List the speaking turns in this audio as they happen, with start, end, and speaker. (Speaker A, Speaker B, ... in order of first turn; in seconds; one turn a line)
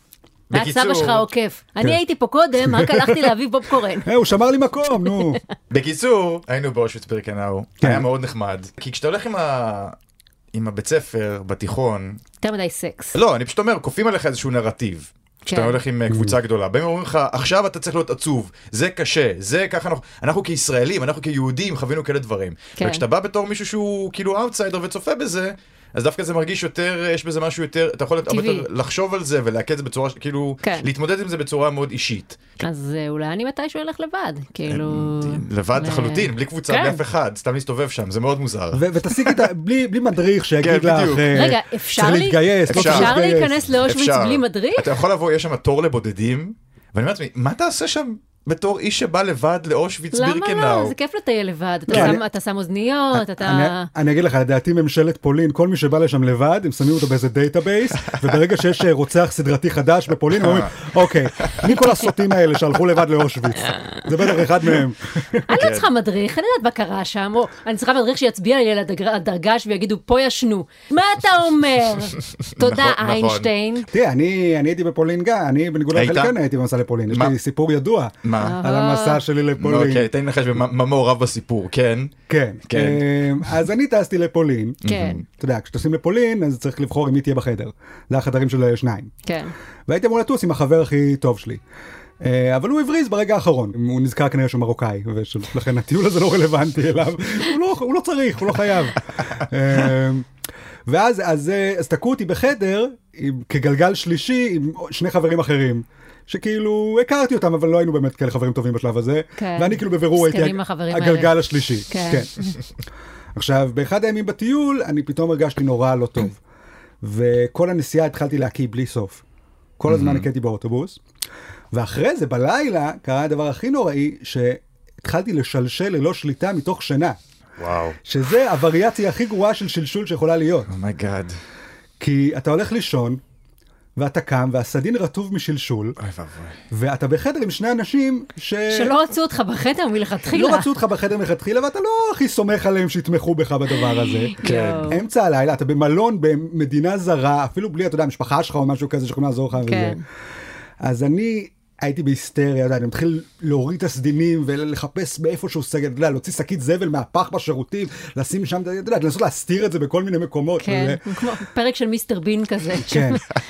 Speaker A: 0.5-1.3
Speaker B: 0.5-4.1
Speaker C: 2.6-3.2
Speaker C: 4.0-5.4
Speaker B: 5.1-5.4
Speaker A: 5.7-9.9
Speaker C: 7.8-8.1
Speaker A: 10.5-12.2
Speaker B: 12.4-13.2
Speaker A: 13.1-32.6
Speaker B: 15.5-15.8
Speaker C: 16.1-16.4
Speaker B: 22.8-23.0
Speaker B: 28.3-28.6
Speaker B: 30.6-30.9
Speaker B: 32.6-37.0
Speaker A: 34.7-39.5
Speaker C: 38.7-43.6
Speaker A: 40.6-41.3
Speaker B: 41.3-44.9
Speaker A: 42.7-50.9
Speaker B: 50.1-53.9
Speaker C: 51.9-52.2
Speaker C: 53.1-65.5
Speaker A: 58.1-58.3
Speaker A: 60.4-60.9
Speaker A: 61.4-61.7
Speaker B: 65.5-73.9
Speaker A: 65.5-65.9
Speaker A: 72.4-73.5
Speaker C: 73.9-80.1
Speaker A: 75.9-76.3
Speaker A: 77.1-77.3
Speaker A: 78.2-78.6
Speaker B: 78.4-79.2
Speaker A: 79.6-82.1
Speaker C: 82.3-84.8
Speaker A: 82.7-83.0
Speaker A: 84.8-85.2
Speaker B: 84.8-85.2
Speaker C: 85.4-89.1
Speaker B: 89.2-89.5
Speaker C: 89.9-91.6
Speaker C: 92.2-100.3
Speaker C: 100.9-112.3
Speaker B: 109.4-111.3
Speaker B: 111.9-112.5
Speaker C: 113.3-116.4
Speaker C: 117.0-119.2
Speaker C: 119.8-121.0
Speaker A: 119.9-120.3
Speaker C: 121.7-127.2
Speaker A: 127.6-128.0
Speaker C: 128.0-130.7
Speaker A: 130.7-131.3
Speaker C: 132.0-133.2
Speaker C: 134.0-136.0
Speaker A: 136.0-136.6
Speaker C: 136.7-138.9
Speaker B: 138.7-140.7
Speaker C: 140.3-144.3
Speaker B: 143.9-145.0
Speaker A: 144.4-144.9
Speaker C: 144.9-150.0
Speaker B: 149.7-150.0
Speaker C: 150.8-161.0
Speaker B: 160.6-163.2
Speaker C: 162.8-163.2